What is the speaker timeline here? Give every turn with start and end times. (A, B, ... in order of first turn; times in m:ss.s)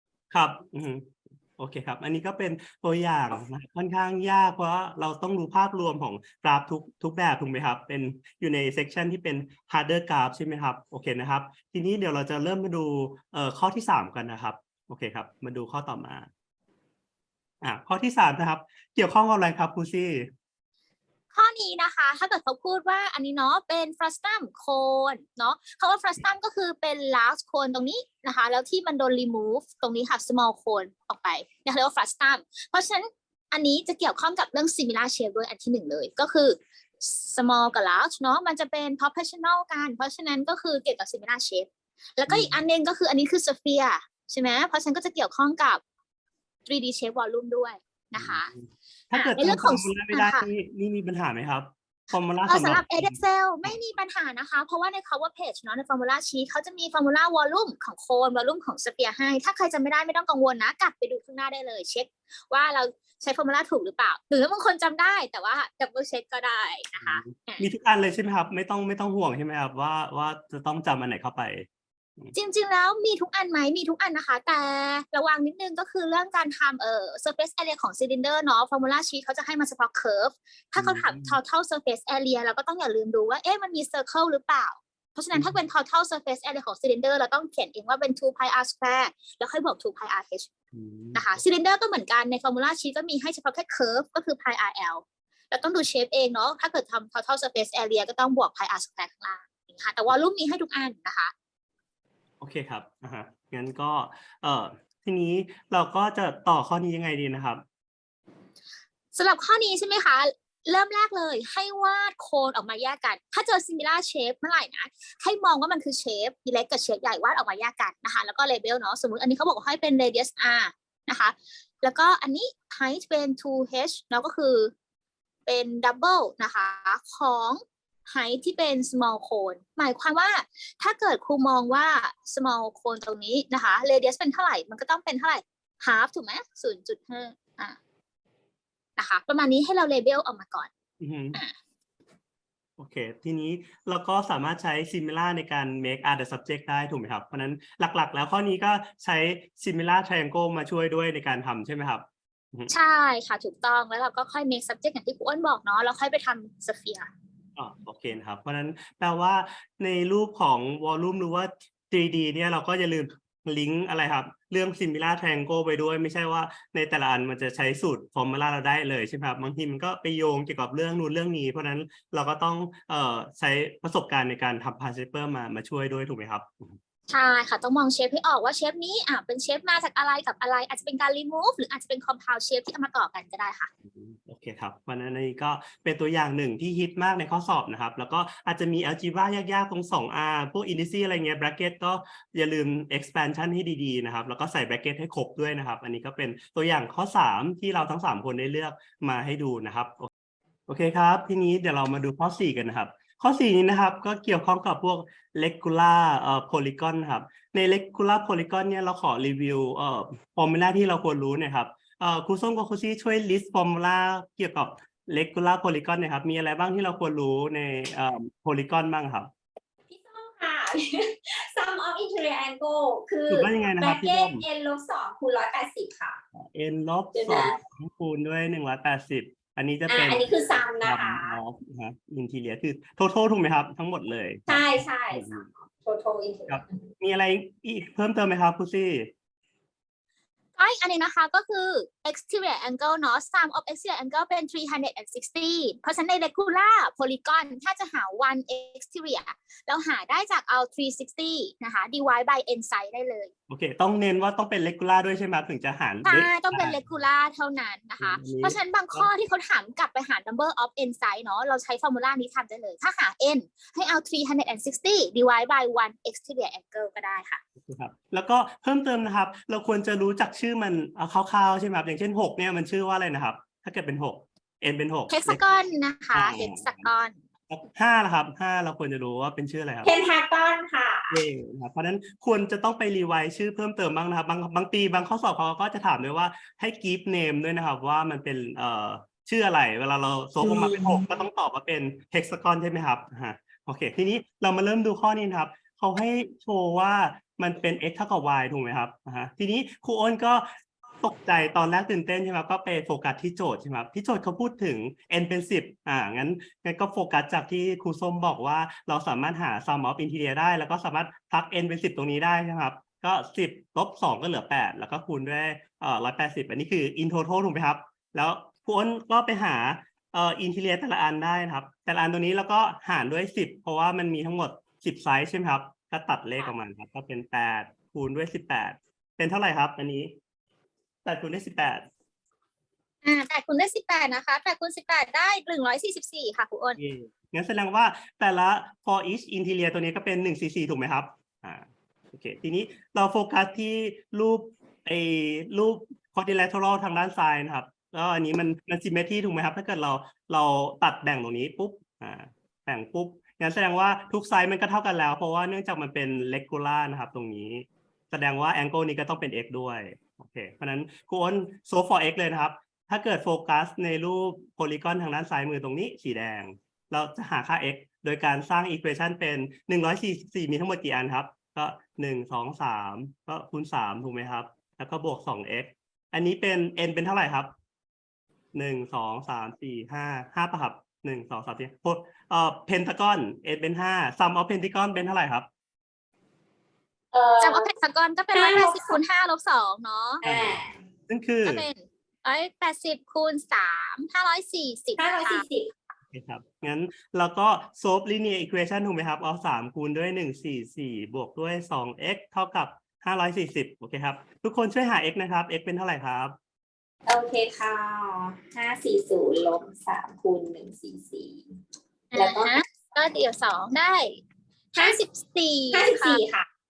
0:00.3-0:16.3 A
0:17.6-0:20.3 A
0:21.3-0:45.8 B
0:42.3-0:42.6 A
0:46.7-0:48.5 B
0:48.2-0:53.8 A
0:49.1-0:50.5 B
0:52.5-1:07.6 B
1:07.0-1:11.7 A
1:12.4-1:30.5 B
1:20.8-1:21.4 A
1:30.7-1:31.2 A
1:31.2-1:41.3 B
1:42.4-1:47.6 A
1:49.1-2:04.7 B
2:05.5-2:17.8 B
2:19.0-2:20.7 B
2:21.0-2:21.4 A
2:22.8-2:32.7 A
2:32.7-2:37.1 B
2:37.6-2:56.8 A
2:57.1-3:03.7 B
3:03.9-3:20.1 A
3:20.7-3:39.3 A
3:39.9-3:46.2 C
3:43.3-3:44.4 A
3:46.3-3:55.5 A
3:47.1-3:47.6 C
3:49.9-3:51.4 C
3:54.5-3:56.8 C
3:56.5-3:59.1 A
4:00.6-4:13.3 B
4:13.5-4:16.8 A
4:16.0-4:27.4 B
4:18.0-4:19.1 A
4:27.6-4:35.5 A
4:35.1-4:37.2 B
4:36.1-4:36.9 A
4:37.5-4:39.9 A
4:39.8-4:41.2 C
4:41.1-5:00.5 A
4:50.4-4:51.0 C
5:01.0-5:30.2 A
5:31.0-5:31.9 A
5:33.0-5:36.8 B
5:36.8-6:17.5 A
6:18.5-6:25.5 A
6:27.1-6:27.7 C
6:27.4-6:30.2 B
6:28.3-6:29.0 C
6:30.2-6:30.7 C
6:30.2-6:31.7 A
6:31.4-6:35.4 B
6:35.0-6:35.7 C
6:36.1-6:46.4 A
6:47.1-6:51.6 C
6:52.1-6:54.2 B
6:52.1-6:52.6 C
6:54.7-6:56.2 B
6:55.7-6:56.5 C